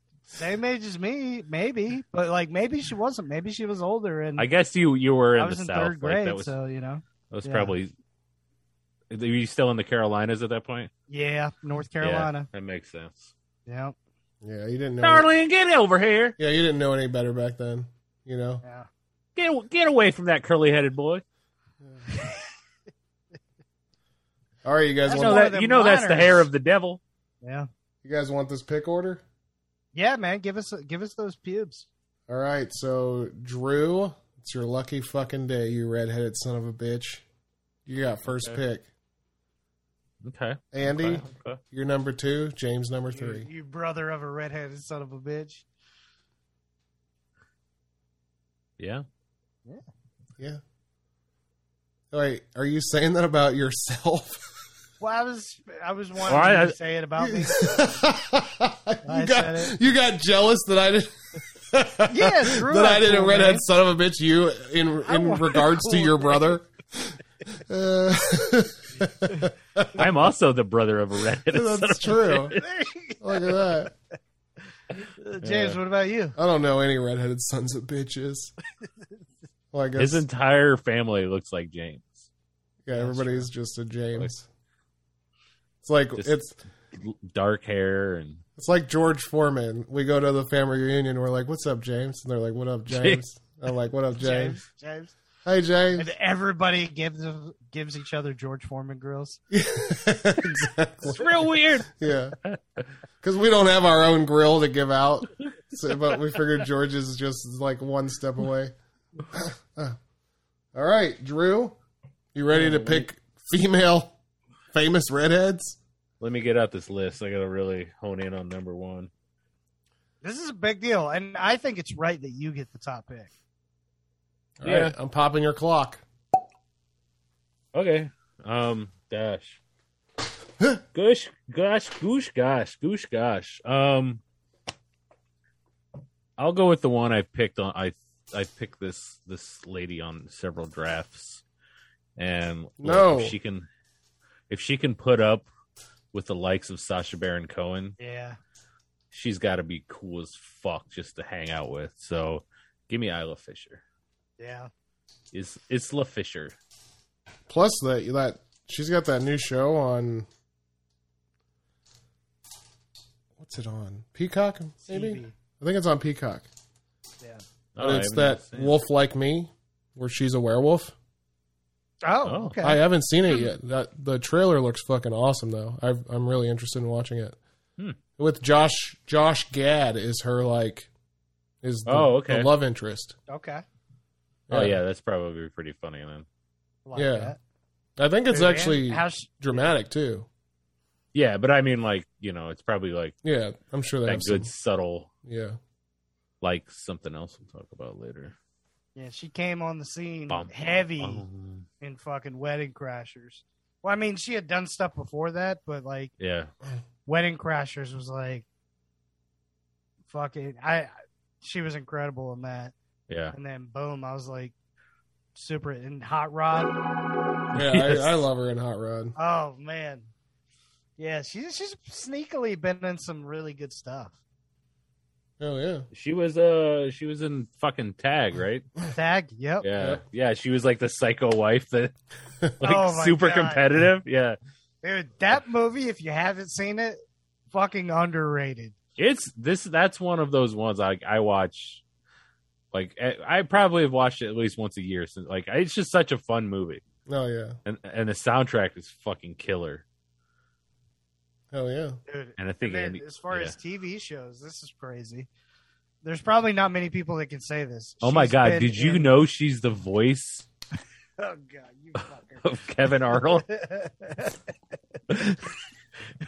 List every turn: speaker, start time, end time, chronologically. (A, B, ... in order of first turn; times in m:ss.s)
0:00.3-0:04.5 A
0:04.4-0:06.5 B
0:05.4-0:07.7 A
0:07.3-0:07.9 B
0:09.1-0:10.9 B
0:11.1-0:12.5 A
0:12.0-0:13.3 B
0:13.6-0:13.9 A
0:14.4-0:15.3 C
0:15.0-0:16.4 B
0:16.4-0:18.6 C
0:18.6-0:18.9 A
0:19.4-0:21.2 B
0:22.1-0:22.4 A
0:24.6-0:25.4 C
0:25.0-0:26.5 A
0:25.1-0:27.0 B
0:27.4-0:27.7 A
0:28.0-0:29.2 C
0:29.9-0:31.9 A
0:32.3-0:37.2 C
0:37.8-0:38.8 C
0:38.3-0:38.6 B
0:40.2-0:41.6 B
0:40.7-0:43.5 C
0:43.1-0:45.6 A
0:48.8-0:49.0 B
0:52.1-0:54.5 C
0:55.0-0:58.0 A
0:56.3-0:56.8 B
0:57.2-1:10.1 C
0:59.0-0:59.7 A
1:02.1-1:03.6 A
1:05.0-1:06.5 A
1:10.0-1:12.6 B
1:11.5-1:12.6 C
1:12.6-1:13.9 A
1:13.2-1:13.9 C
1:15.2-1:16.4 A
1:15.4-1:15.8 B
1:16.4-1:18.5 C
1:19.7-1:20.2 C
1:20.0-1:22.3 B
1:22.8-1:24.5 C
1:22.9-1:23.4 A
1:25.8-1:26.6 C
1:26.9-1:28.4 B
1:28.6-1:34.6 C
1:32.9-1:33.2 B
1:34.2-1:35.1 A
1:35.4-1:36.1 C
1:36.0-1:39.4 A
1:39.5-1:42.4 C
1:41.0-1:42.8 B
1:43.2-1:48.7 C
1:49.3-1:50.0 C
1:50.7-1:51.8 C
1:52.3-1:54.2 C
1:52.5-1:53.0 B
1:54.7-1:55.8 C
1:56.2-1:59.1 B
2:00.2-2:03.3 A
2:04.6-2:06.0 C
2:04.6-2:04.9 B
2:07.7-2:09.6 B
2:10.9-2:14.2 B
2:16.4-2:21.4 B
2:22.2-2:23.6 B
2:22.8-2:23.4 C
2:24.5-2:25.5 B
2:26.1-2:28.0 B
2:28.0-2:28.4 A
2:29.1-2:33.8 B
2:34.4-2:34.7 A
2:35.3-2:36.5 B
2:37.5-2:40.3 C
2:43.4-2:46.5 C
2:44.8-2:45.3 A
2:47.8-2:48.8 B
2:47.8-2:50.9 C
2:52.0-2:52.8 A
2:52.2-2:52.6 B
2:52.6-2:57.4 C
2:58.2-3:00.9 C
3:01.6-3:03.2 C
3:01.8-3:02.5 B
3:03.3-3:03.6 A
3:04.5-3:04.8 C
3:04.5-3:06.2 B
3:06.8-3:07.4 A
3:06.9-3:07.3 C
3:08.0-3:10.3 C
3:08.3-3:09.4 A
3:11.1-3:13.2 B
3:13.2-3:14.5 C
3:14.0-3:15.1 B
3:15.2-3:15.6 C
3:16.4-3:18.3 B
3:19.0-3:21.2 A
3:20.3-3:21.6 B
3:21.8-3:26.1 A
3:26.2-3:26.5 B
3:27.0-3:28.4 A
3:30.1-3:32.7 A
3:33.1-3:33.3 B
3:33.3-3:34.5 A
3:35.3-3:36.8 A
3:37.5-3:38.1 B
3:37.5-3:39.2 C
3:39.2-3:40.1 A
3:41.0-3:44.2 A
3:45.4-3:45.9 C
3:45.9-3:48.7 B
3:48.9-3:49.6 A
3:49.6-3:51.9 B
3:52.6-3:54.4 B
3:52.6-3:53.6 A
3:54.8-3:57.0 A
3:57.5-3:58.7 A
3:59.0-4:01.8 B
4:02.7-4:06.8 B
4:07.1-4:07.6 C
4:07.6-4:09.8 B
4:11.5-4:12.0 C
4:12.1-4:15.3 A
4:12.4-4:13.5 B
4:16.0-4:19.1 A
4:18.0-4:20.4 B
4:21.2-4:22.5 A
4:22.4-4:23.4 B
4:23.1-4:24.4 A
4:25.1-4:25.4 B